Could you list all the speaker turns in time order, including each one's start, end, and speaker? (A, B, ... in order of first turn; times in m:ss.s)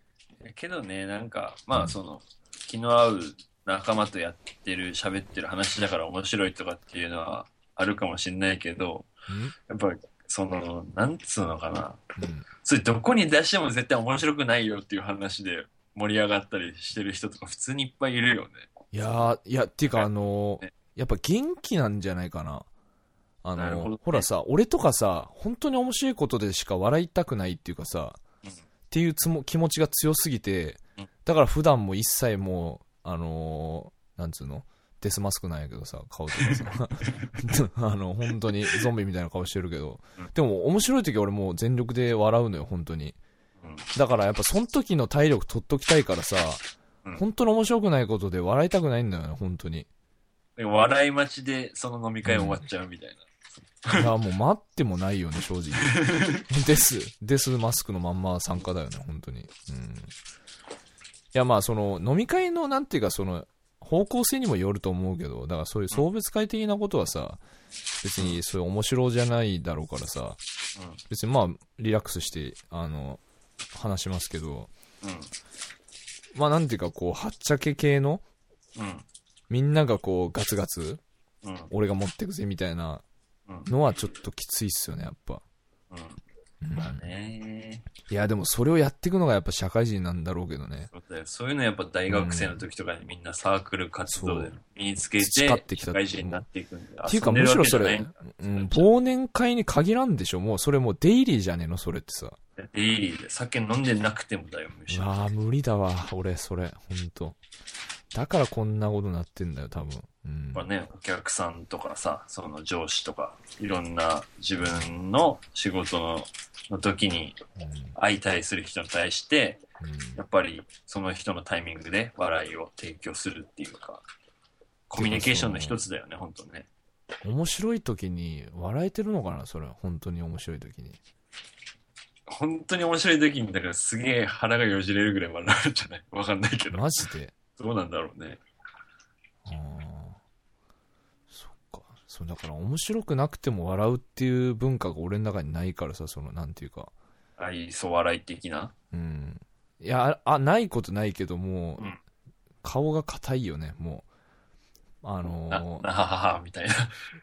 0:00.4-0:09.1 A
0:09.3-0:09.5 B
0:09.6-0:12.0 A
0:12.2-0:12.5 B
0:12.6-0:18.7 A
0:18.9-0:22.7 B
0:23.4-0:28.2 B
0:23.6-0:24.3 A
0:28.9-0:43.2 B
0:36.4-0:37.3 A
0:43.9-0:46.6 B
0:47.2-0:49.9 B
0:50.6-0:54.1 A
0:52.2-0:52.6 B
0:53.9-1:00.1 B
0:55.8-0:56.4 A
1:01.3-1:07.4 B
1:08.0-1:10.4 B
1:11.1-1:13.2 B
1:13.7-1:14.7 B
1:15.0-1:15.3 A
1:16.3-1:18.2 B
1:18.8-1:19.0 A
1:19.5-1:21.0 B
1:21.4-1:21.7 A
1:21.7-1:23.0 B
1:23.7-1:25.4 B
1:25.9-1:26.2 A
1:26.6-1:27.1 B
1:26.8-1:27.8 A
1:28.1-1:30.9 B
1:30.9-1:38.9 A
1:32.1-1:32.6 B
1:34.1-1:34.5 B
1:35.2-1:36.4 B
1:37.0-1:42.4 B
1:42.6-1:45.1 A
1:44.9-1:47.4 B
1:48.1-1:50.7 B
1:50.5-1:57.4 A
1:54.6-1:54.9 B
1:57.6-1:58.0 B
1:57.9-1:59.6 A
1:59.8-2:00.2 B
2:00.2-2:04.0 A
2:04.9-2:06.7 A
2:04.9-2:05.8 B
2:07.2-2:11.0 B
2:12.3-2:16.8 A
2:16.7-2:17.3 B
2:17.6-2:18.4 A
2:19.4-2:20.2 B
2:21.3-2:26.9 B
2:27.4-2:28.7 A
2:28.9-2:32.0 B
2:32.6-2:34.0 B
2:35.0-2:35.8 B
2:35.5-2:36.9 A